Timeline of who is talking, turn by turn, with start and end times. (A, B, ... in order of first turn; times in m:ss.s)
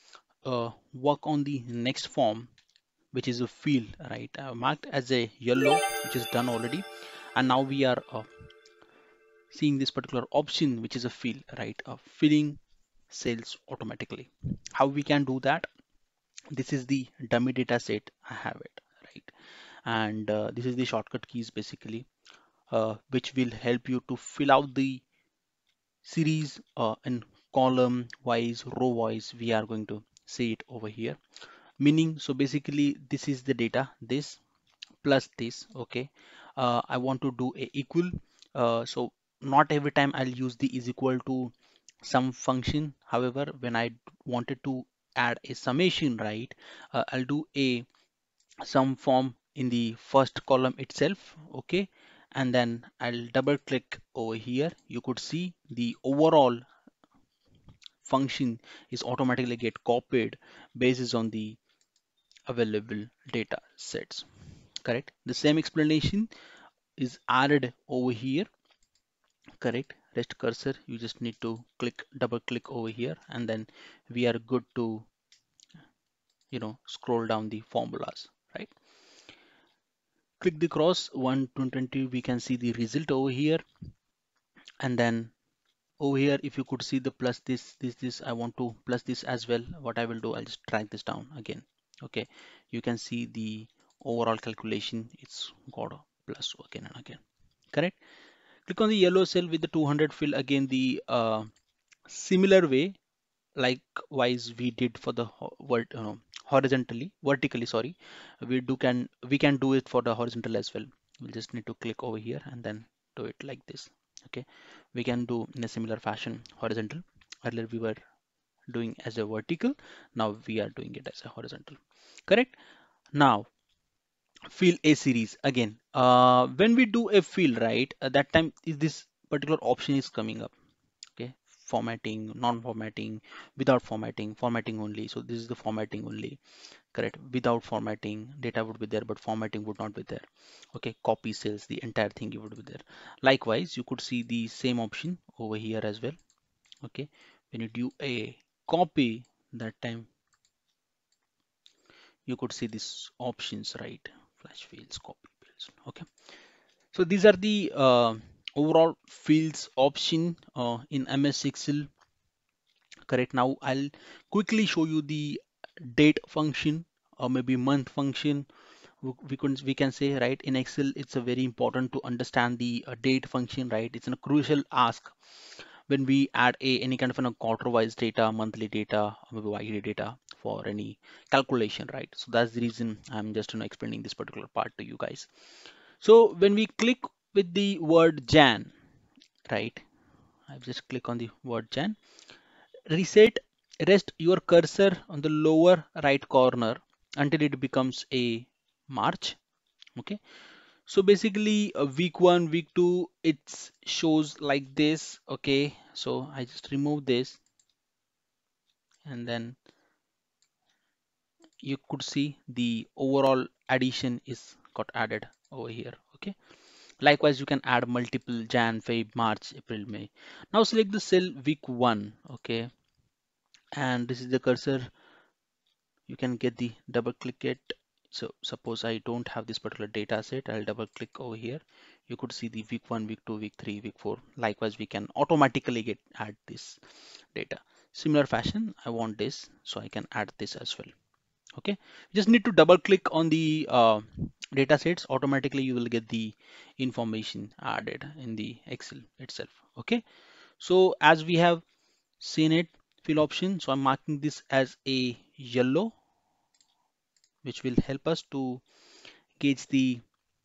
0:00.4-0:02.5 A
0:03.1-0:08.3 A
0:09.5-0:15.7 A
0:16.5-0:19.3 A
0:19.8-0:22.1 A
0:22.7-0:25.0 A
0:26.0-0:31.2 A
0:31.8-0:34.4 A
0:35.0-0:47.8 A
0:48.6-0:56.6 A
0:58.0-1:01.6 A
1:02.5-1:04.2 A
1:04.8-1:06.3 A
1:07.0-1:08.5 A
1:09.6-1:15.1 A
1:16.5-1:18.7 A
1:20.4-1:23.6 A
1:24.8-1:25.3 A
1:26.0-1:37.2 A
1:38.6-1:41.5 A
1:42.1-1:43.0 A
1:43.6-1:58.0 A
1:58.7-2:02.6 A
2:03.1-2:03.5 A
2:04.5-2:10.5 A
2:11.2-2:16.4 A
2:16.9-2:26.2 A
2:26.8-2:30.1 A
2:32.3-2:36.1 A
2:36.9-2:41.9 A
2:43.1-2:48.5 A
2:49.0-2:55.1 A
2:55.9-3:05.3 A
3:06.0-3:08.7 A
3:09.5-3:09.8 A
3:10.5-3:12.0 A
3:12.9-3:19.4 A
3:20.9-3:27.4 A
3:29.0-3:29.6 A
3:31.6-3:36.3 A
3:37.0-3:42.7 A
3:43.7-3:44.9 A
3:46.1-3:56.8 A
3:57.3-4:00.9 A
4:01.6-4:10.0 A
4:10.6-4:11.6 A
4:12.2-4:15.9 A
4:17.4-4:18.6 A
4:19.4-4:20.0 A